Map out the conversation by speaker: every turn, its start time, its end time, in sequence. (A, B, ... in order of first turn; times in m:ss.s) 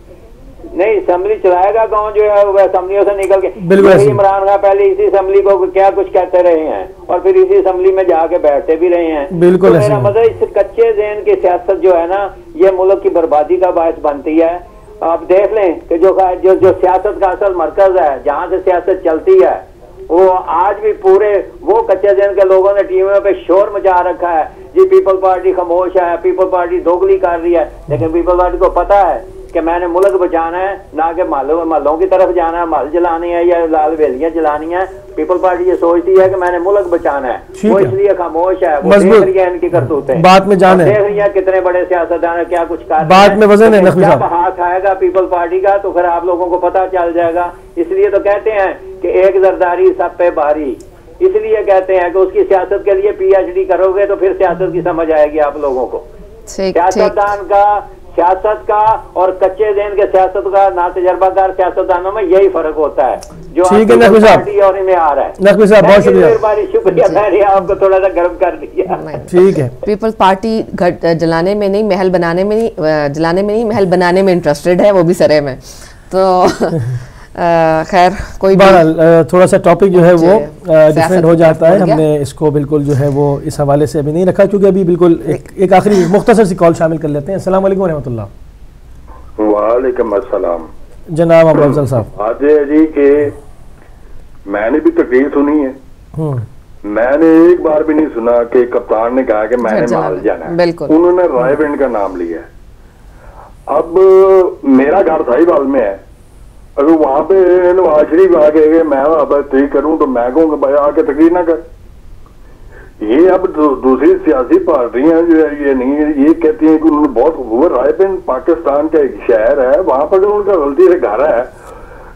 0:00.7-0:56.1 A
0:03.6-0:04.2 B
0:09.3-0:10.1 B
0:37.6-0:38.0 B
0:38.8-0:41.0 B
0:43.0-0:44.2 B
0:56.5-0:57.2 C
0:56.7-1:09.0 A
1:03.6-1:04.5 B
1:05.4-1:06.4 B
1:08.9-1:16.8 C
1:09.3-1:09.7 B
1:17.3-1:18.8 C
1:18.5-1:28.3 B
1:19.9-1:22.0 C
1:29.4-1:30.7 D
1:31.1-1:32.1 B
1:31.5-1:33.4 D
1:34.5-1:35.8 D
1:36.2-1:36.4 B
1:36.9-1:42.5 D
1:39.6-1:41.0 C
1:43.7-1:46.0 D
1:46.8-1:51.6 D
1:53.0-2:01.5 D